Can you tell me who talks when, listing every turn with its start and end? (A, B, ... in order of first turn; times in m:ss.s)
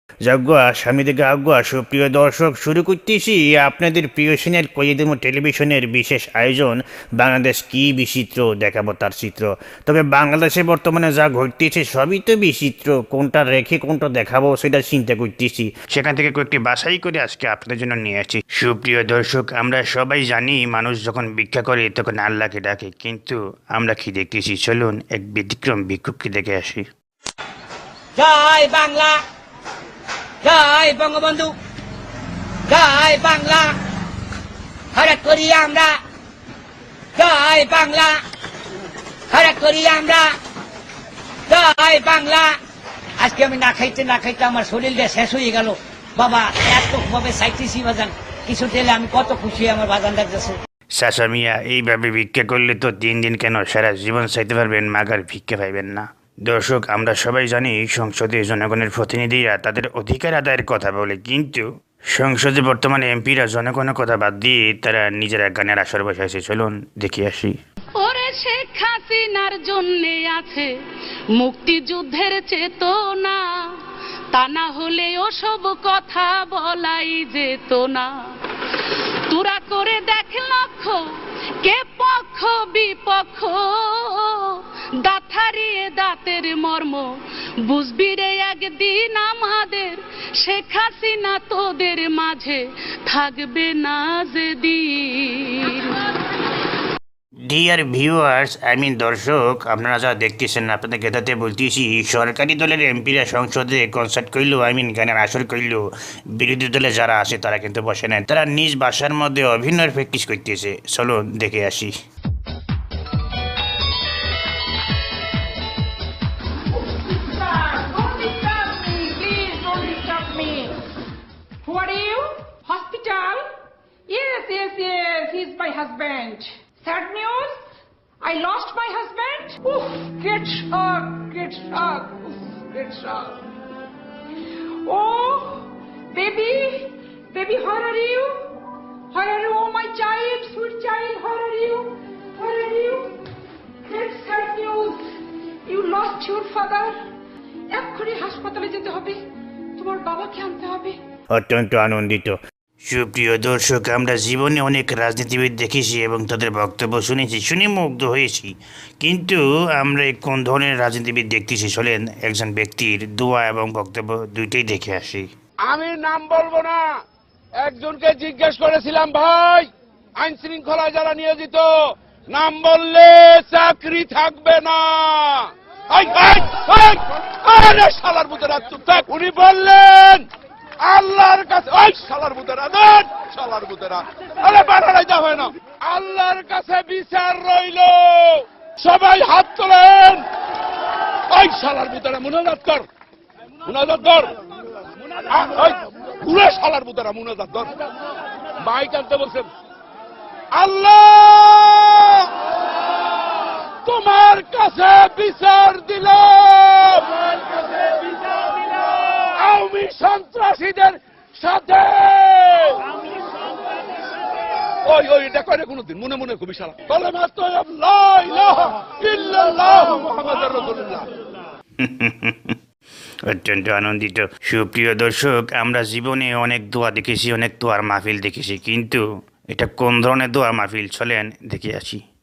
0:00.2-0:26.8 A
0:28.2-0:29.2 B
0:30.4-0:31.5 B
0:32.7-0:33.8 B
0:34.9-0:36.0 B
0:37.2-0:38.2 B
0:39.3-0:40.3 B
0:41.5-0:42.6 B
0:43.2-0:50.6 B
0:50.9-1:07.6 A
1:08.0-1:10.7 C
1:11.4-1:13.4 C
1:14.3-1:18.1 C
1:19.3-1:21.0 C
1:21.6-1:27.1 C
1:27.6-1:36.0 C
1:37.5-1:45.8 A
1:46.3-1:51.9 A
1:56.8-2:00.8 D
2:01.6-2:03.4 D
2:04.1-2:07.6 D
2:08.2-2:13.4 D
2:14.8-2:18.6 D
2:19.1-2:23.2 D
2:23.8-2:25.0 D
2:25.6-2:26.9 D
2:27.7-2:29.2 D
2:29.8-2:31.0 D
2:31.3-2:45.3 A
2:45.7-2:46.9 E
2:47.6-2:51.7 E
2:52.3-3:00.2 E
3:00.8-3:10.2 E
3:11.3-3:12.8 E
3:13.6-3:14.3 E
3:15.3-3:17.7 E
3:18.6-3:19.5 E
3:20.5-3:22.3 E
3:23.8-3:27.5 E
3:29.3-3:32.8 E
3:34.9-3:41.0 E
3:41.8-3:42.6 A
3:43.3-3:52.0 A